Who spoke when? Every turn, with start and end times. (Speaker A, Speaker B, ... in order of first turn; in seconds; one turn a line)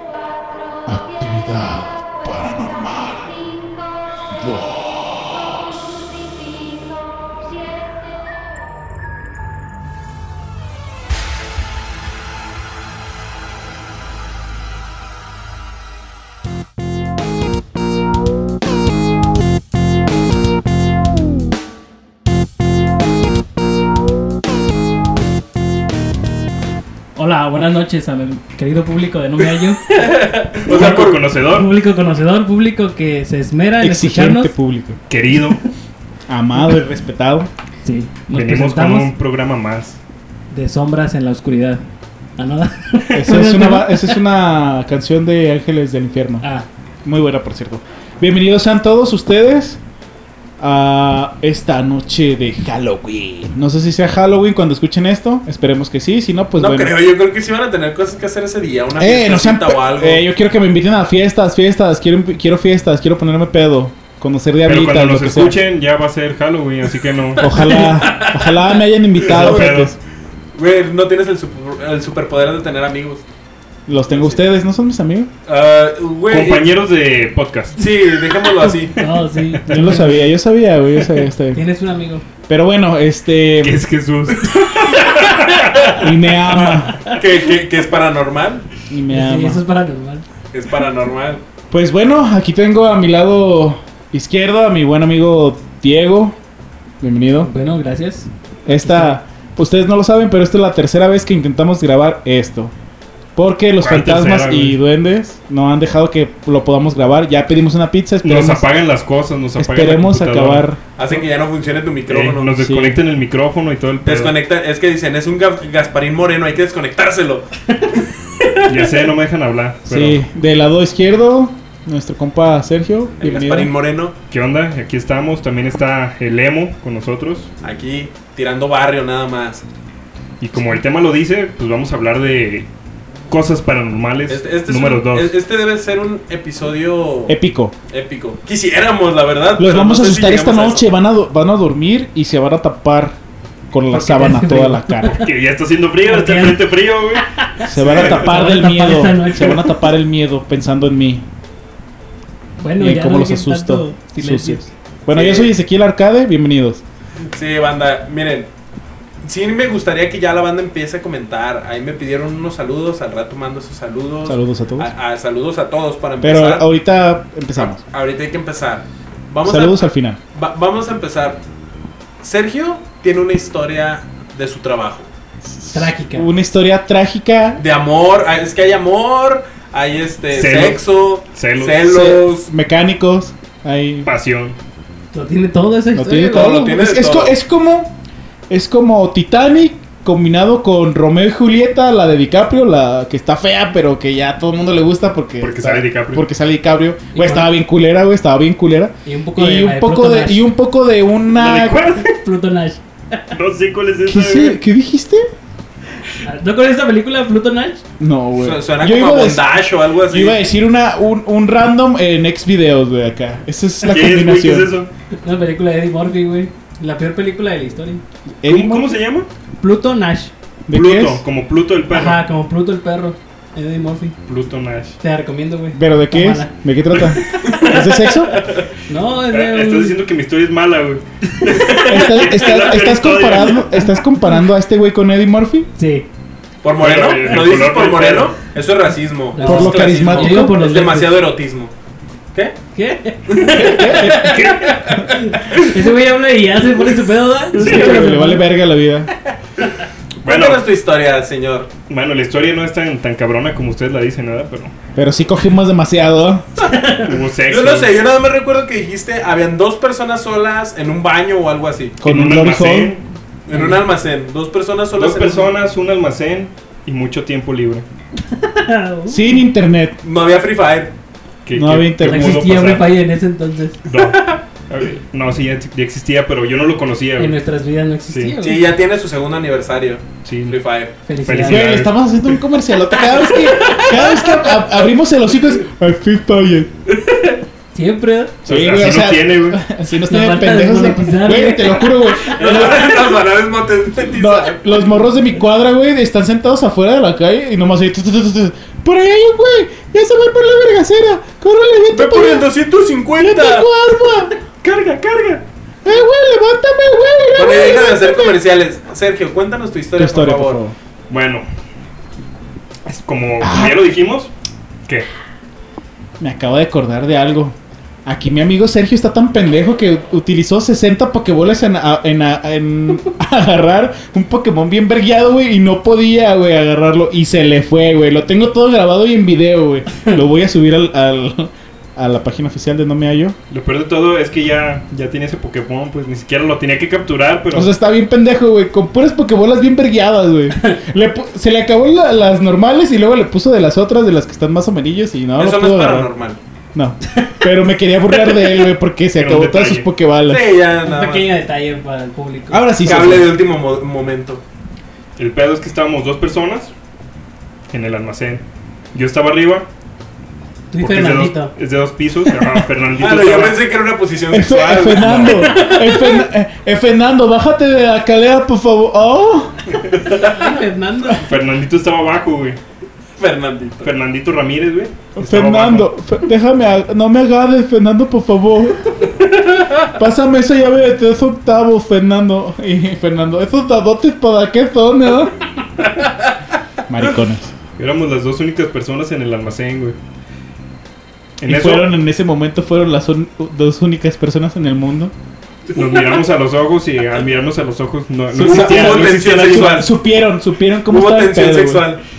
Speaker A: 0.8-3.4
Speaker A: 4.3-5.7
Speaker B: 27.1-29.8
Speaker C: 29.9-31.2
Speaker D: 30.6-31.7
Speaker B: 30.7-34.5
Speaker A: 33.8-35.0
Speaker D: 35.1-35.6
Speaker A: 36.3-37.5
Speaker B: 37.8-39.1
Speaker D: 38.3-40.0
Speaker B: 40.5-41.8
Speaker B: 42.4-44.2
Speaker A: 43.1-46.5
Speaker B: 46.4-46.7
Speaker A: 47.0-49.8
Speaker A: 50.6-57.0
Speaker C: 56.5-60.2
Speaker A: 59.0-65.6
Speaker D: 64.6-67.9
Speaker A: 67.4-70.0
Speaker C: 67.4-68.7
Speaker C: 69.2-69.8
Speaker D: 69.3-69.9
Speaker C: 70.5-73.2
Speaker A: 73.9-75.3
Speaker C: 74.1-74.4
Speaker C: 75.5-76.7
Speaker D: 76.3-77.8
Speaker C: 77.8-79.0
Speaker B: 78.9-80.2
Speaker A: 79.7-81.6
Speaker B: 81.5-82.2
Speaker A: 82.5-83.8
Speaker D: 83.6-86.0
Speaker C: 84.5-85.9
Speaker A: 86.0-87.0
Speaker C: 87.1-88.7
Speaker A: 88.9-89.6
Speaker B: 89.1-90.2
Speaker C: 90.5-91.4
Speaker A: 91.7-96.4
Speaker A: 97.0-97.5
Speaker B: 97.4-98.3
Speaker A: 98.7-102.7
Speaker B: 98.8-99.2
Speaker A: 103.3-108.7
Speaker D: 103.8-104.8
Speaker D: 108.2-110.6
Speaker A: 109.6-110.8
Speaker C: 111.0-112.6
Speaker D: 112.1-114.3
Speaker A: 112.6-113.0
Speaker C: 114.0-118.8
Speaker D: 118.7-120.2
Speaker A: 119.9-123.7
Speaker C: 123.2-124.1
Speaker D: 124.3-127.5
Speaker C: 127.6-129.6
Speaker D: 130.4-132.7
Speaker D: 133.3-135.4
Speaker C: 134.3-137.4
Speaker A: 137.3-137.7
Speaker C: 137.9-140.8
Speaker A: 139.6-143.2
Speaker A: 143.7-145.2
Speaker B: 143.9-145.2
Speaker D: 145.1-147.3
Speaker B: 146.1-149.8
Speaker A: 147.6-151.2
Speaker C: 147.8-148.3
Speaker B: 152.6-154.6
Speaker A: 152.8-156.8
Speaker C: 155.1-155.5
Speaker C: 157.3-158.5
Speaker C: 159.2-166.7
Speaker A: 164.2-164.9
Speaker A: 166.2-167.8
Speaker C: 167.6-169.8
Speaker A: 169.4-170.2
Speaker C: 170.3-171.4
Speaker C: 172.2-175.1
Speaker A: 175.4-177.6
Speaker B: 175.7-176.3
Speaker C: 177.6-182.5
Speaker D: 180.3-181.9
Speaker A: 181.8-184.1
Speaker D: 184.0-184.6
Speaker B: 185.1-186.7
Speaker A: 185.9-187.9
Speaker C: 186.3-187.3
Speaker A: 188.5-201.8
Speaker D: 195.4-196.2
Speaker B: 197.1-197.5
Speaker B: 199.0-200.5
Speaker D: 201.3-202.1
Speaker B: 202.0-203.2
Speaker D: 203.3-204.6
Speaker A: 204.1-205.3
Speaker B: 206.2-207.8
Speaker A: 208.0-214.7
Speaker C: 208.3-210.4
Speaker D: 213.8-214.9
Speaker B: 215.2-218.0
Speaker A: 218.4-219.0
Speaker D: 218.5-219.3
Speaker B: 219.6-220.3
Speaker A: 220.7-221.2
Speaker D: 220.7-222.2
Speaker B: 221.9-224.1
Speaker D: 224.2-225.0
Speaker B: 225.0-226.5
Speaker A: 225.7-228.4
Speaker C: 227.4-228.6
Speaker B: 228.9-230.0
Speaker D: 229.3-233.7
Speaker A: 231.9-235.7
Speaker B: 235.8-236.1
Speaker C: 236.6-241.7
Speaker D: 236.8-238.3
Speaker B: 239.3-241.2
Speaker A: 239.4-240.6
Speaker B: 242.7-244.4
Speaker C: 243.3-245.7
Speaker A: 243.5-244.4
Speaker B: 245.3-248.4
Speaker D: 247.6-248.0
Speaker A: 247.6-249.1
Speaker C: 250.2-251.7
Speaker D: 250.2-250.6
Speaker D: 251.9-254.7
Speaker A: 254.9-256.4
Speaker B: 256.7-257.1
Speaker D: 256.9-257.9
Speaker C: 257.5-262.0
Speaker A: 262.0-262.9
Speaker D: 262.0-263.0
Speaker C: 263.5-265.5
Speaker B: 263.5-263.8
Speaker D: 265.0-267.8
Speaker B: 268.3-269.2
Speaker A: 269.1-270.0
Speaker C: 270.0-270.9
Speaker D: 271.4-272.9
Speaker A: 271.5-272.7
Speaker B: 272.0-273.8
Speaker D: 273.8-277.4
Speaker B: 277.2-278.7
Speaker D: 278.1-278.3
Speaker C: 278.4-280.9
Speaker D: 280.2-280.6
Speaker B: 281.1-281.7
Speaker D: 281.2-281.9
Speaker A: 281.4-286.7
Speaker C: 283.2-284.5
Speaker C: 286.9-287.4
Speaker B: 287.7-288.4
Speaker A: 288.4-293.2
Speaker D: 288.4-289.6
Speaker B: 290.1-292.4
Speaker C: 292.4-294.9
Speaker A: 294.1-302.5
Speaker C: 301.9-303.7
Speaker A: 303.2-304.3
Speaker D: 304.6-305.4
Speaker A: 305.8-308.4
Speaker C: 307.3-310.6
Speaker A: 309.9-310.7
Speaker D: 311.1-311.4
Speaker D: 312.9-314.3
Speaker A: 313.4-313.8
Speaker A: 316.2-333.4
Speaker D: 333.5-337.7
Speaker A: 337.5-346.1
Speaker C: 345.4-346.4
Speaker A: 346.7-350.5
Speaker B: 347.1-347.4
Speaker D: 349.2-349.9
Speaker C: 350.3-351.3
Speaker B: 350.8-353.1
Speaker A: 352.5-353.3
Speaker C: 352.8-354.4
Speaker D: 355.2-356.7
Speaker D: 357.7-359.7
Speaker B: 360.7-361.5
Speaker D: 360.8-363.6
Speaker C: 362.9-366.2
Speaker A: 364.3-369.6
Speaker D: 364.9-365.6
Speaker C: 369.9-370.6
Speaker B: 370.2-371.3
Speaker D: 371.2-372.6
Speaker C: 373.2-373.9
Speaker D: 373.8-375.9
Speaker A: 375.2-378.9
Speaker A: 379.9-385.3
Speaker A: 386.9-387.5
Speaker D: 387.8-390.0
Speaker D: 391.4-391.9
Speaker A: 391.4-395.1
Speaker D: 395.7-399.9
Speaker C: 395.8-396.1
Speaker A: 398.3-401.9
Speaker C: 398.4-399.9
Speaker C: 400.9-402.0